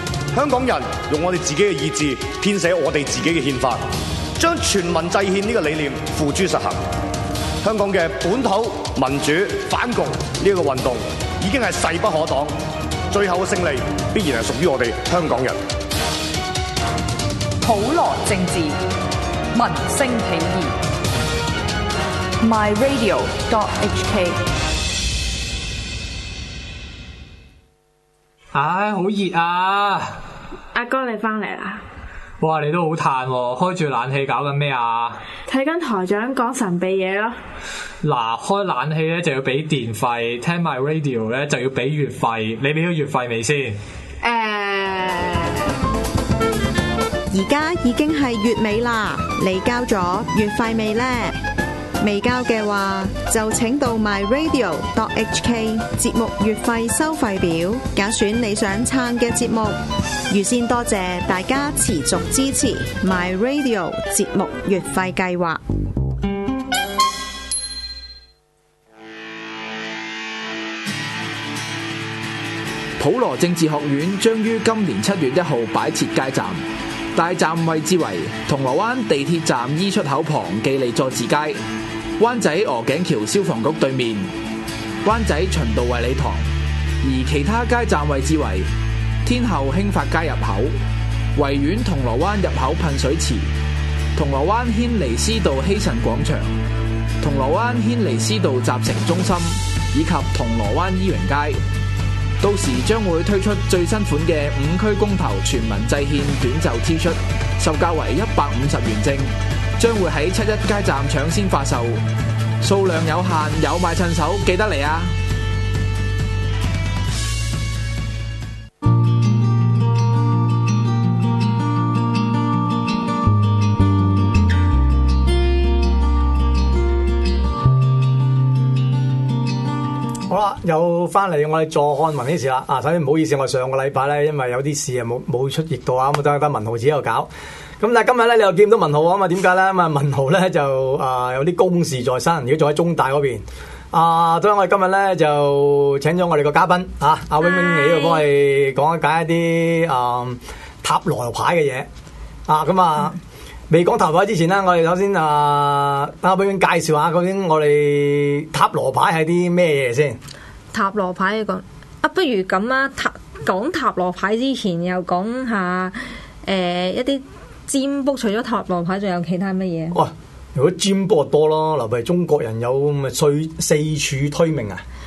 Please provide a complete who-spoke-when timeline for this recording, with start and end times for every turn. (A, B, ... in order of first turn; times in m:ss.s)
0:00.3-0:06.8 A
0:07.6-0:12.5 A
0:13.1-0:15.6 A
0:17.6-0:18.8 B
0:19.5-0:20.8 B
0:22.4-0:24.4 B
0:28.5-0:30.2 C
0:30.7-0:31.8 D
0:32.4-0:35.2 C
0:35.5-0:37.4 D
0:38.0-0:43.8 C
0:44.2-0:45.7 D
0:47.3-0:51.4 E
0:52.0-1:05.6 E
1:13.0-1:16.6 F
1:17.1-1:21.6 F
1:22.2-1:24.3 F
1:25.0-1:26.5 F
1:27.0-1:28.7 F
1:29.2-1:30.8 F
1:31.3-1:33.5 F
1:34.1-1:36.5 F
1:37.2-1:41.6 F
1:42.4-1:52.0 F
1:52.6-1:55.1 F
2:10.3-2:31.9 G
2:27.4-2:28.2 H
2:32.5-2:33.2 G
2:33.7-2:40.2 G
2:40.7-2:50.0 H
2:49.9-2:54.8 G